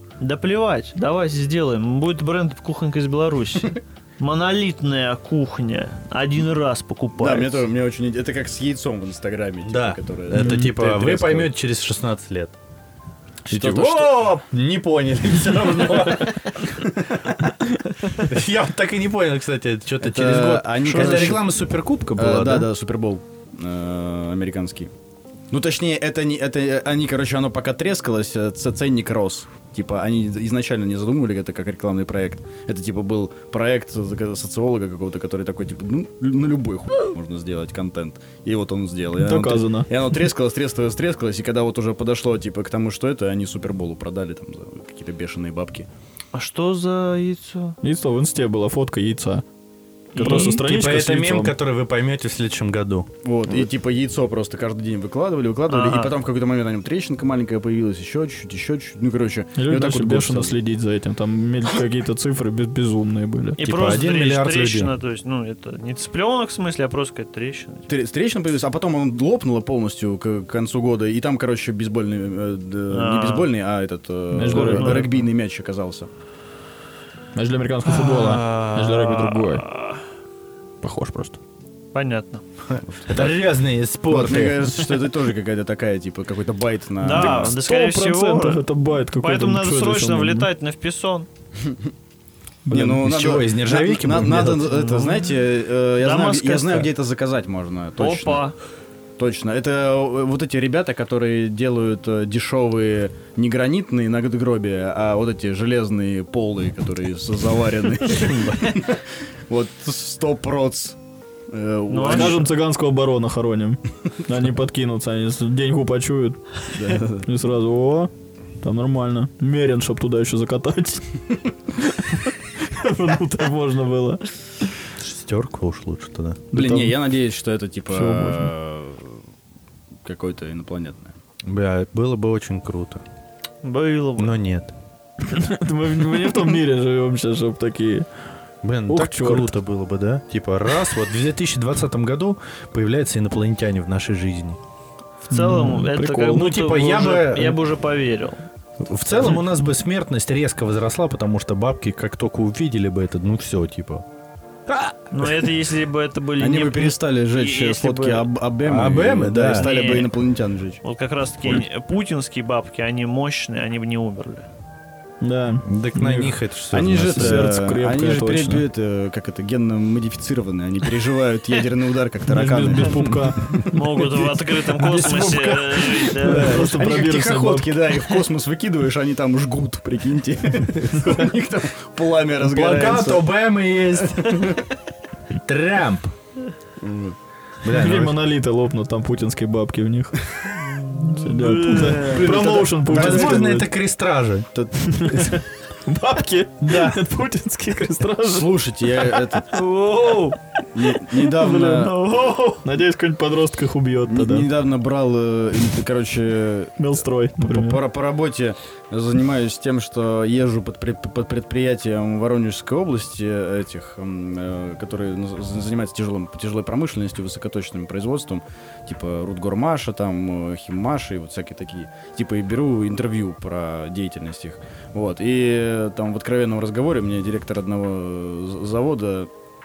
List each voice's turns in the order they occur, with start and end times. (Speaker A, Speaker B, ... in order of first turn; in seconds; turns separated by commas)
Speaker A: 0.2-7.6, Speaker B: 7.2-11.5, Speaker C: 9.7-12.5, Speaker D: 10.3-10.7, Speaker C: 13.5-16.4, Speaker B: 13.5-14.4, Speaker C: 18.2-22.7, Speaker B: 20.0-21.6, Speaker B: 22.1-24.9, Speaker B: 25.5-45.9, Speaker D: 39.2-39.9, Speaker A: 46.3-47.8, Speaker D: 47.8-49.4, Speaker A: 50.1-50.6, Speaker D: 50.1-51.5, Speaker C: 50.2-53.1, Speaker B: 53.2-60.6, Speaker A: 55.7-56.1, Speaker D: 59.5-63.6, Speaker A: 63.6-67.9, Speaker C: 63.6-64.9, Speaker B: 67.9-76.1, Speaker A: 72.9-73.5, Speaker D: 74.3-75.1, Speaker A: 74.5-75.2, Speaker D: 77.3-79.6, Speaker A: 77.8-80.0, Speaker D: 80.8-81.4, Speaker A: 81.9-82.4, Speaker C: 82.7-84.7, Speaker B: 84.1-87.5, Speaker A: 87.0-91.3, Speaker D: 87.1-90.5, Speaker D: 92.7-93.0, Speaker B: 92.7-98.4, Speaker C: 92.8-94.8, Speaker A: 94.9-95.2, Speaker A: 96.0-96.9, Speaker A: 98.0-98.5, Speaker B: 99.2-111.0, Speaker B: 111.5-112.5, Speaker A: 111.9-112.5, Speaker D: 112.1-124.3, Speaker B: 116.7-117.3, Speaker C: 125.0-126.4, Speaker D: 126.5-127.0, Speaker B: 126.5-129.2, Speaker D: 127.9-128.5, Speaker B: 130.0-131.1, Speaker C: 131.4-133.0, Speaker A: 133.6-134.3, Speaker C: 134.2-134.7, Speaker D: 135.3-138.1, Speaker C: 138.6-144.6, Speaker D: 138.9-139.5, Speaker A: 145.3-148.5, Speaker D: 145.3-146.4, Speaker C: 146.3-147.6, Speaker C: 148.8-154.0, Speaker C: 154.7-154.9, Speaker A: 155.1-158.3, Speaker B: 156.4-160.8, Speaker C: 158.6-159.7, Speaker A: 159.5-160.1, Speaker A: 160.8-164.5, Speaker D: 165.2-166.4, Speaker C: 165.6-167.5, Speaker B: 166.7-173.2, Speaker D: 167.0-168.6, Speaker D: 172.3-177.8, Speaker A: 173.7-176.6, Speaker B: 176.2-183.4, Speaker D: 180.9-181.3, Speaker C: 182.4-184.6, Speaker B: 184.2-184.5, Speaker C: 185.4-186.1, Speaker B: 186.8-187.2, Speaker C: 187.6-188.2, Speaker D: 187.7-193.7, Speaker A: 190.9-192.2, Speaker B: 192.0-193.7, Speaker C: 192.3-194.5, Speaker B: 194.5-195.4, Speaker D: 194.9-199.2, Speaker C: 196.6-197.0, Speaker B: 198.2-199.5, Speaker A: 199.5-200.4, Speaker B: 200.7-201.9, Speaker A: 201.2-202.6, Speaker D: 202.6-204.5, Speaker B: 204.1-206.8, Speaker D: 206.8-207.8, Speaker B: 207.4-229.3